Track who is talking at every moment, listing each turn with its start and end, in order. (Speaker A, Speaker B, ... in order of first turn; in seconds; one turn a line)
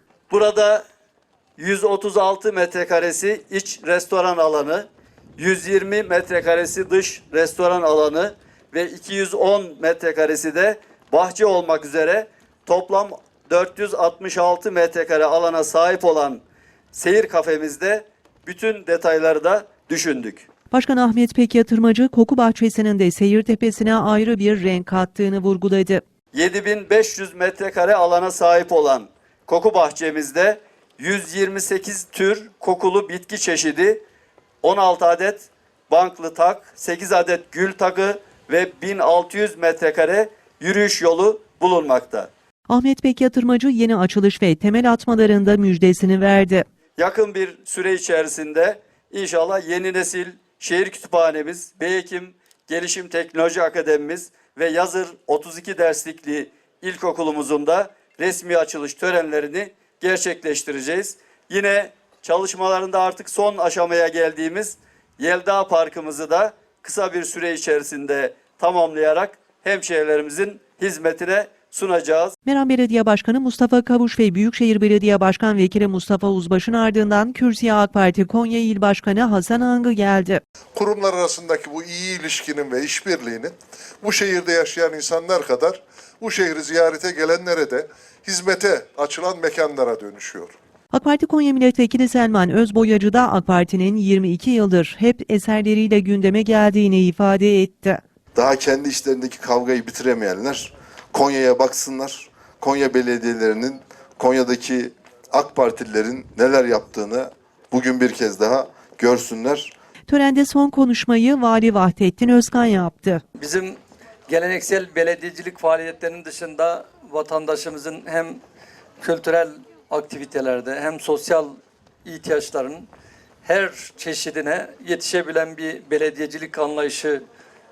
Speaker A: 0.3-0.8
Speaker A: 1.6-4.9
Speaker A: 5.4-16.4
Speaker A: 16.9-20.5
Speaker B: 20.7-26.0
Speaker A: 26.3-34.0
Speaker A: 34.6-42.3
Speaker B: 42.7-46.6
Speaker A: 47.0-72.3
Speaker B: 72.4-80.4
Speaker C: 80.7-90.5
Speaker B: 90.9-98.0
Speaker D: 98.3-109.7
Speaker B: 110.1-113.2
Speaker E: 113.3-118.4
Speaker E: 119.0-122.9
Speaker E: 123.4-127.2